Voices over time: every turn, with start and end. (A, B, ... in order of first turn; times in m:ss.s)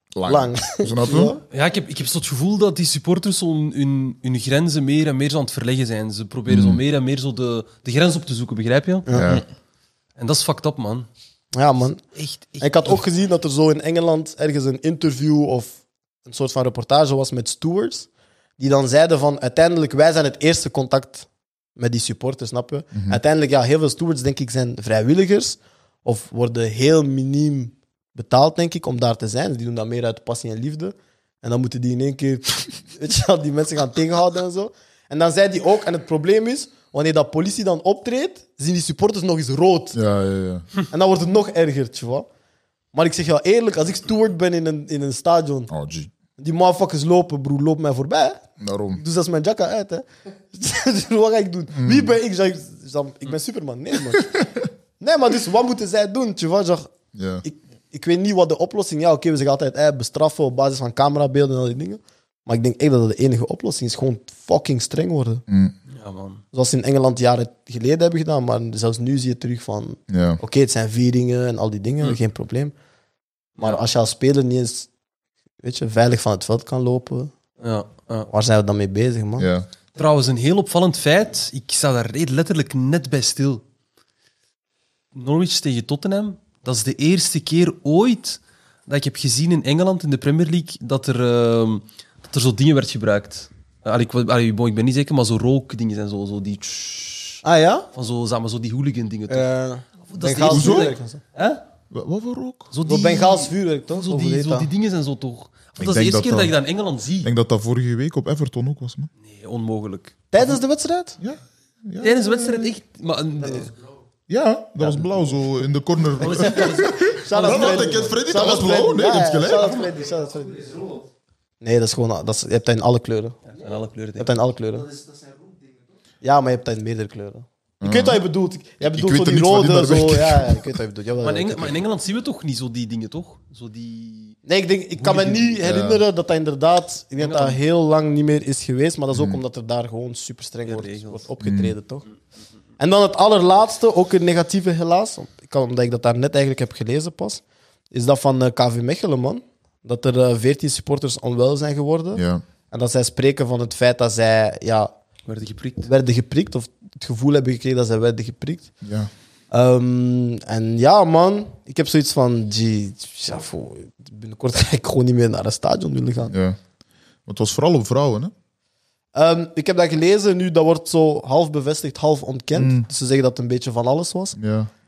0:00.1-0:01.3 A
0:00.2-0:01.4 B
0:01.5-0:09.0 C
0:06.5-0:06.8 A
0:09.1-0:09.4 A
0:10.2-0:11.1 C
0:11.5-0:12.0 B
0:12.2-0:13.0 C
0:12.6-0:40.0 B
0:22.9-0:23.2 A
0:39.9-0:40.7 A
0:40.9-0:42.3 B
0:42.9-0:45.7 B
0:45.7-0:46.1 A
0:46.4-0:48.4 B
0:48.6-0:49.0 A
0:49.0-0:54.3 B
0:51.7-0:52.2 A
0:54.3-0:54.6 A
0:55.0-0:56.9 B
0:57.1-0:57.4 A
0:57.4-1:05.4 B
1:05.5-1:05.7 A
1:05.9-1:06.4 C
1:06.5-1:12.7 B
1:10.1-1:10.4 A
1:13.6-1:14.9 B
1:15.6-1:17.3 B
1:17.6-1:18.3 C
1:18.3-1:19.5 B
1:19.4-1:19.7 A
1:19.9-1:23.6 C
1:25.1-1:37.4 C
1:37.4-1:37.9 B
1:37.9-1:39.5 C
1:39.3-1:41.2 B
1:40.1-1:41.6 C
1:40.5-1:40.9 A
1:41.9-1:42.7 A
1:42.7-1:47.3 C
1:42.8-1:44.7 B
1:45.8-1:46.5 A
1:47.2-1:49.1 A
1:49.2-1:50.2 C
1:50.3-1:51.2 B
1:51.2-1:52.7 A
1:52.0-1:53.7 C
1:54.3-1:59.8 A
1:56.2-1:58.1 C
1:56.3-2:00.8 B
2:01.6-2:03.4 B
2:03.4-2:04.3 C
2:04.2-2:04.9 B
2:06.2-2:11.8 B
2:07.8-2:08.2 A
2:08.8-2:10.7 A
2:11.2-2:14.4 C
2:14.4-2:22.0 B
2:15.0-2:15.5 C
2:15.6-2:16.0 A
2:17.2-2:17.6 C
2:19.1-2:19.4 A
2:20.7-2:21.2 C
2:21.4-2:21.7 A
2:22.8-2:34.9 B
2:32.1-2:32.4 A
2:35.3-2:35.9 C
2:35.8-2:38.7 B
2:38.8-2:39.1 A
2:39.5-2:46.3 B
2:46.3-2:46.6 A
2:47.3-2:48.3 A
2:49.1-2:54.4 B
2:52.5-2:52.8 A
2:54.4-2:54.7 A